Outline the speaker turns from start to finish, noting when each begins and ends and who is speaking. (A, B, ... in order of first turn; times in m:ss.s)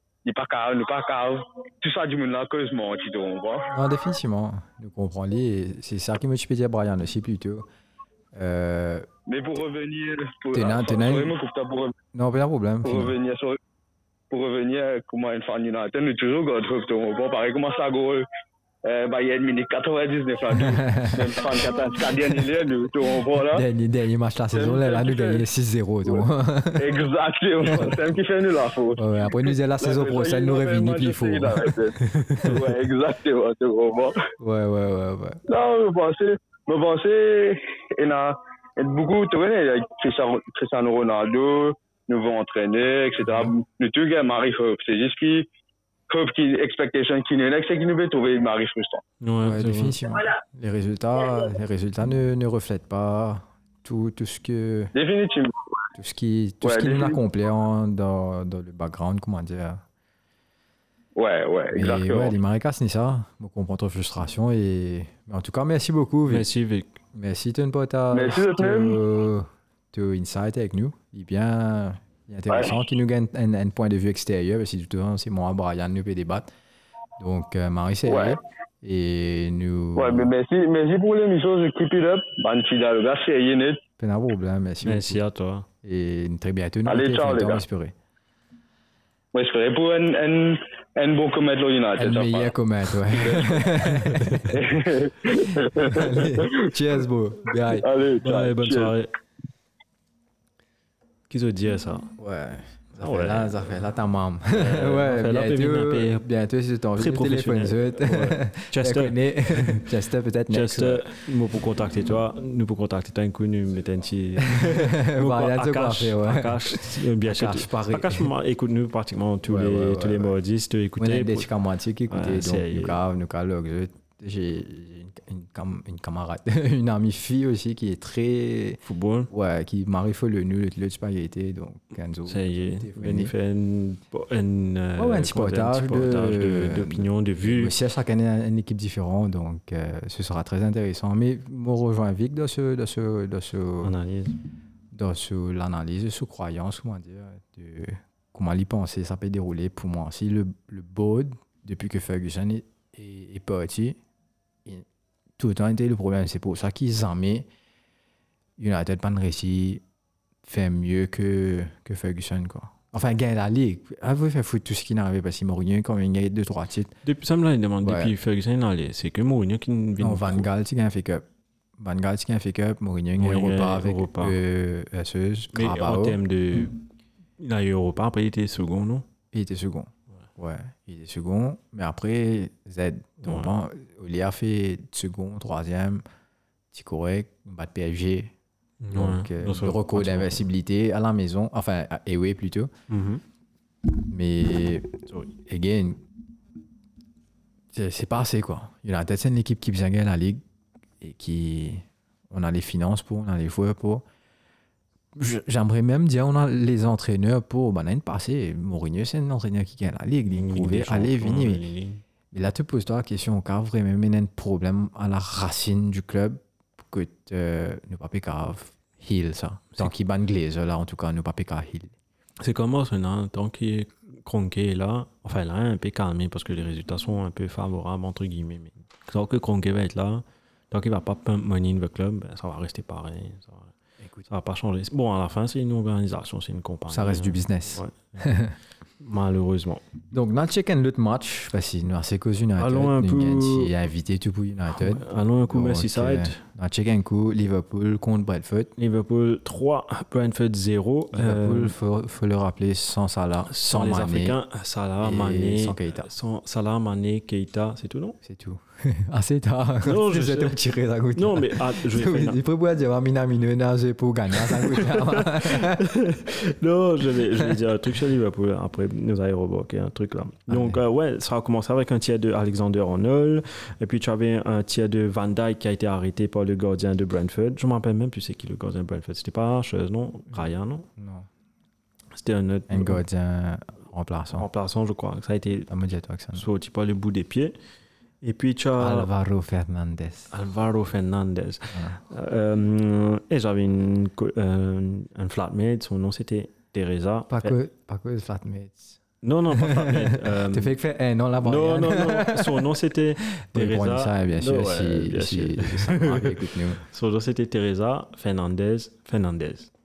0:00.2-0:03.7 A
0:03.7-0:07.7 B
0:08.3-0:09.1 B
0:09.3-0:11.9 A
0:10.5-0:11.3 B
0:12.1-0:13.1 B
0:12.8-0:13.6 A
0:14.3-0:18.3 A
0:18.8-0:23.6 A
0:20.6-0:21.3 B
0:23.5-0:27.0 B
0:24.5-0:25.4 A
0:26.0-0:34.2 A
0:29.0-0:32.6 B
0:32.2-0:32.5 C
0:34.4-0:35.4 B
0:35.5-0:45.5 A
0:46.1-0:49.0 A
0:49.2-0:50.0 C
0:49.4-0:54.9 B
0:54.9-0:55.5 A
0:55.9-0:59.8 B
0:56.6-0:57.2 A
1:01.2-1:02.3 A
1:01.7-1:06.5 B
1:06.3-1:06.9 C
1:07.1-1:16.5 B
1:08.1-1:09.0 A
1:17.2-1:20.3 B
1:18.1-1:18.4 A
1:20.0-1:23.8 A
1:24.0-1:25.2 B
1:24.8-1:25.7 C
1:25.8-1:27.9 B
1:26.8-1:27.6 A
1:29.3-1:32.5 A
1:32.0-1:34.6 B
1:33.1-1:33.7 A
1:34.1-1:34.4 C
1:34.5-1:36.5 A
1:35.6-1:37.9 B
1:37.7-1:38.9 A
1:38.2-1:39.1 C
1:41.3-1:42.1 C
1:42.2-1:51.2 B
1:43.0-1:43.6 C
1:44.5-1:46.2 C
1:47.0-1:49.9 C
1:50.5-2:01.5 C
1:54.5-1:58.3 B
1:59.4-2:00.3 B
2:01.0-2:13.3 B
2:02.1-2:03.0 C
2:08.8-2:09.3 C
2:12.3-2:17.7 C
2:15.0-2:23.9 B
2:23.8-2:24.4 C
2:24.9-2:34.0 B
2:35.4-2:37.5 B
2:38.6-2:39.8 B
2:40.4-2:46.9 B
2:47.0-2:50.5 C
2:47.8-2:48.1 B
2:50.0-2:51.2 B
2:51.8-2:56.2 B
2:53.2-2:54.4 C
2:55.5-2:56.8 C
2:57.4-2:59.0 C
2:59.3-3:06.0 B
3:03.2-3:03.5 C
3:06.7-3:08.3 B
3:08.8-3:10.4 C
3:08.9-3:12.7 B
3:12.9-3:13.2 C
3:14.1-3:14.9 B
3:15.1-3:15.3 C
3:15.5-3:16.0 B
3:17.7-3:20.4 B
3:21.0-3:24.0 B
3:25.2-3:31.6 B
3:30.3-3:32.0 C
3:32.3-3:41.9 B
3:42.4-3:53.7 C
3:54.0-3:54.3 B
3:54.3-3:58.2 C
3:56.9-3:58.6 B
3:59.0-3:59.8 C
4:00.1-4:08.7 B
4:02.6-4:03.7 C
4:04.7-4:06.4 C
4:08.8-4:11.8 C
4:11.1-4:14.4 B
4:13.5-4:18.2 C
4:15.0-4:16.1 B
4:18.2-4:25.8 B
4:19.8-4:22.4 C
4:24.3-4:40.9 C
4:30.5-4:30.8 B
4:41.0-4:41.3 B
4:42.1-4:43.0 C
4:42.7-4:44.5 B
4:44.3-4:45.7 C
4:45.7-4:46.4 B
4:46.3-4:47.5 C
4:48.2-4:49.1 C
4:48.8-4:50.3 B
4:50.3-4:57.5 C
4:51.7-4:52.0 B
4:57.3-4:59.0 B
4:59.2-5:00.7 C
4:59.5-5:06.8 B
5:01.4-5:09.7 C